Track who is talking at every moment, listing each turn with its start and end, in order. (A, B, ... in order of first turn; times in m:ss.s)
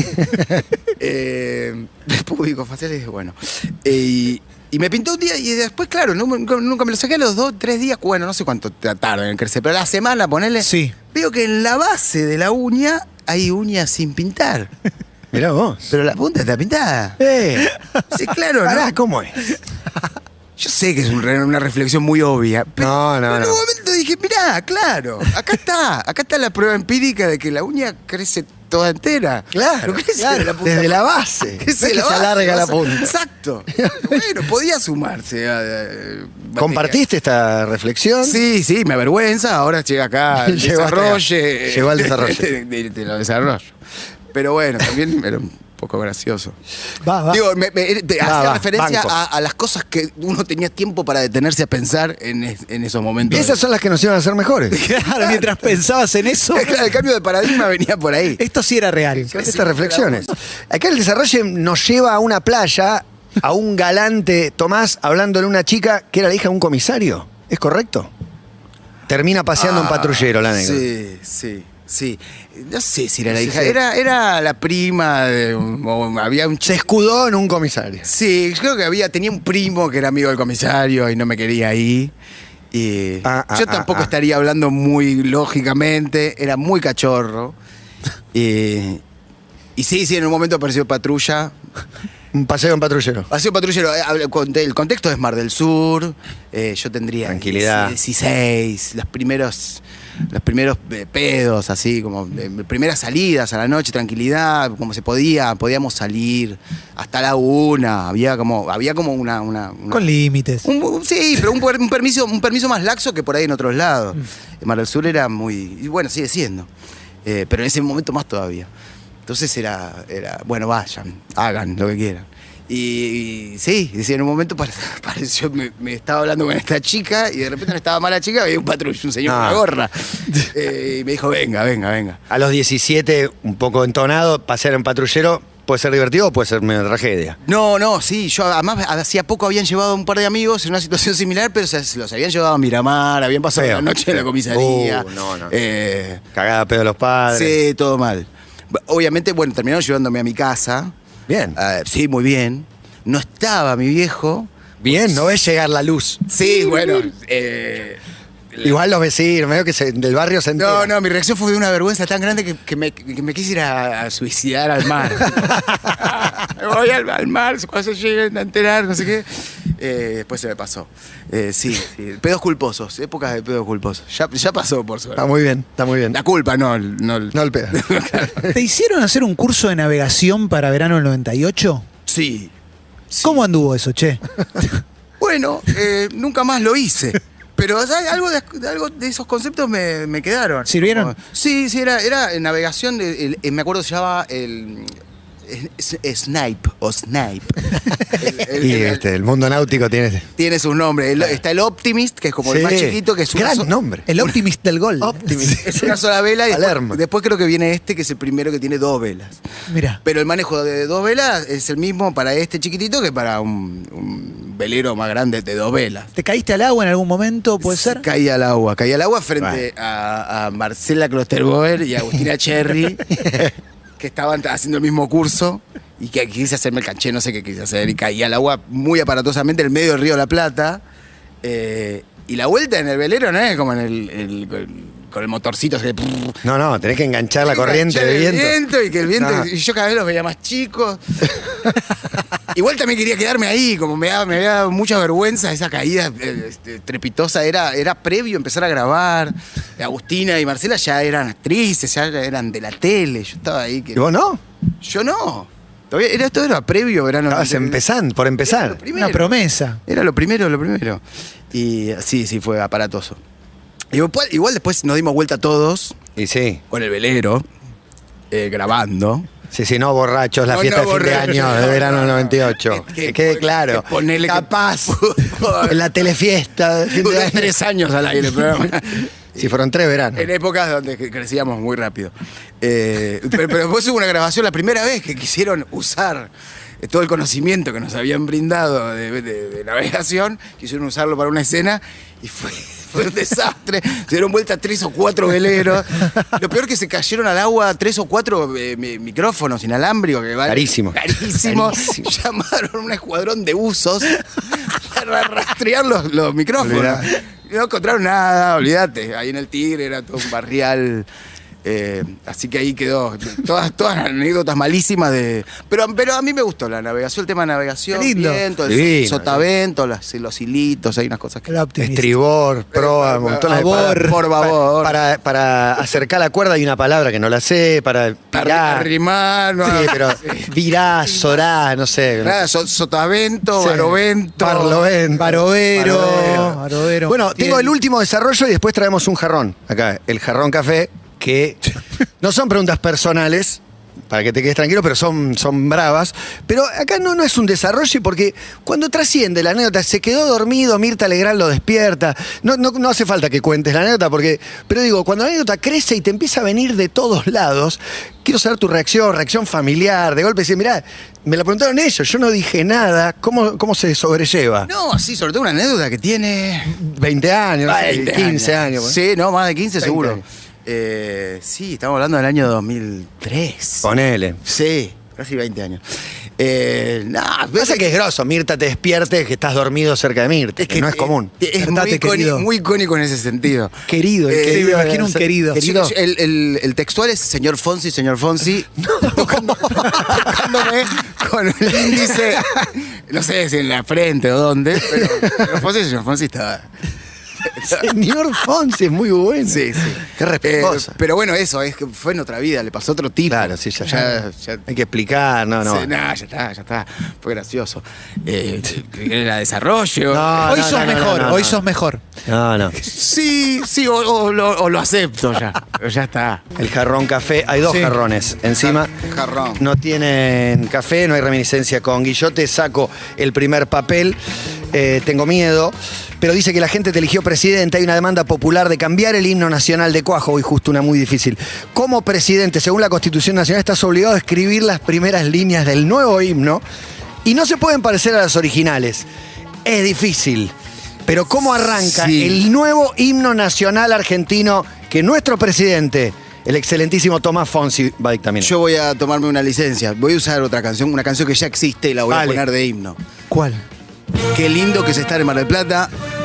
0:00.4-0:00.6 A
0:01.0-0:14.7 B
0:10.6-0:10.9 C
0:15.3-0:15.8 A
0:15.9-0:17.2 B
0:17.2-0:17.7 A
0:18.1-0:18.9 B
0:18.6-0:19.4 A
0:20.6-0:31.0 B
0:22.8-0:23.6 A
0:29.5-0:33.1 A
0:31.6-0:37.0 B
0:33.8-0:34.2 A
0:36.6-0:38.4 A
0:38.2-0:43.8 B
0:40.4-0:42.5 A
0:44.3-0:46.6 B
0:47.0-0:47.4 C
0:47.3-0:53.6 B
0:48.2-0:49.2 A
0:53.3-0:54.8 A
0:54.7-0:56.9 C
0:56.5-0:58.4 B
0:58.4-0:59.3 C
0:59.3-1:00.3 B
0:59.3-1:08.1 A
1:09.1-1:10.9 A
1:09.6-1:16.8 B
1:13.3-1:13.8 A
1:16.6-1:18.1 A
1:18.0-1:22.1 B
1:22.7-1:27.6 B
1:23.2-1:24.1 A
1:28.3-1:29.0 B
1:29.8-1:31.6 B
1:32.3-1:33.3 A
1:33.3-1:50.1 B
1:37.3-1:38.0 A
1:49.9-1:50.7 C
1:50.6-1:56.7 B
1:57.2-1:58.7 B
1:59.3-2:12.2 B
2:09.2-2:09.6 A
2:12.3-2:17.4 A
2:17.5-2:26.2 B
2:23.5-2:25.5 A
2:26.3-2:27.6 A
2:27.3-2:30.9 B
2:31.3-2:31.6 A
2:31.6-2:35.2 B
2:34.8-2:36.5 A
2:36.3-2:38.0 B
2:38.6-2:40.9 A
2:40.6-2:55.3 B
2:55.2-2:56.2 A
2:56.1-2:58.5 B
2:57.3-2:58.6 A
2:58.5-3:01.8 C
3:02.1-3:02.5 B
3:03.1-3:03.4 B
3:03.2-3:04.2 C
3:05.2-3:19.0 B
3:10.7-3:11.1 C
3:18.5-3:20.3 A
3:20.4-3:24.3 B
3:22.4-3:24.1 A
3:24.1-3:25.6 C
3:25.0-3:26.0 A
3:25.5-3:29.4 B
3:26.5-3:27.0 A
3:29.7-3:30.0 C
3:30.0-3:36.1 B
3:36.2-3:38.0 C
3:37.6-3:43.4 B
3:43.1-3:43.5 A
3:44.0-3:50.8 B
3:51.4-3:56.4 B
3:56.4-3:58.6 A
3:57.4-4:01.8 B
3:59.2-3:59.5 A
4:02.5-4:14.0 B
4:14.0-4:14.4 A
4:14.8-4:17.8 B
4:17.3-4:18.8 A
4:18.4-4:23.2 B
4:18.9-4:19.8 C
4:23.9-4:26.0 B
4:26.2-4:26.6 A
4:26.7-4:27.5 B
4:28.3-4:29.3 B
4:29.5-4:37.5 A
4:30.5-4:35.8 B
4:36.9-4:39.5 B
4:39.4-4:40.3 A
4:40.2-5:11.1 B
5:00.5-5:02.1 A
5:06.6-5:07.1 A
5:11.6-5:21.5 B
5:17.9-5:18.4 C
5:18.7-5:19.5 A
5:21.5-5:22.1 C
5:21.8-5:28.9 A
5:22.7-5:25.0 B
5:23.5-5:24.2 C
5:28.3-5:30.5 B
5:29.6-5:32.4 A
5:32.2-5:34.9 B
5:33.6-5:41.6 A
5:35.2-5:37.7 C
5:42.2-6:04.7 A
6:04.7-6:06.8 B
6:06.7-6:09.0 A
6:07.7-6:13.9 B
6:09.8-6:10.2 A
6:13.8-6:14.4 A
6:14.4-6:15.8 B
6:16.4-6:17.9 B
6:17.6-6:21.3 A
6:20.6-6:36.7 B
6:21.6-6:22.4 C
6:23.9-6:25.9 A
6:24.4-6:25.6 C
6:28.8-6:30.6 A
6:31.8-6:32.6 A
6:35.0-6:35.5 A
6:37.4-6:37.9 B
6:37.6-6:41.0 A
6:39.4-6:44.7 B
6:43.3-6:45.9 A
6:45.6-6:50.7 B
6:50.1-6:51.6 A
6:50.5-6:52.0 C
6:52.3-6:52.8 A
6:52.8-6:56.4 B
6:56.6-6:58.9 A
6:57.7-6:57.9 C
6:58.6-6:59.6 B
6:59.6-7:04.2 A
7:04.7-7:16.6 A
7:17.2-7:19.1 A
7:19.6-7:20.5 A
7:21.1-7:28.5 A
7:21.8-7:22.4 B
7:28.4-7:33.0 B
7:32.1-7:32.4 A
7:33.3-7:33.6 C
7:34.2-7:35.9 B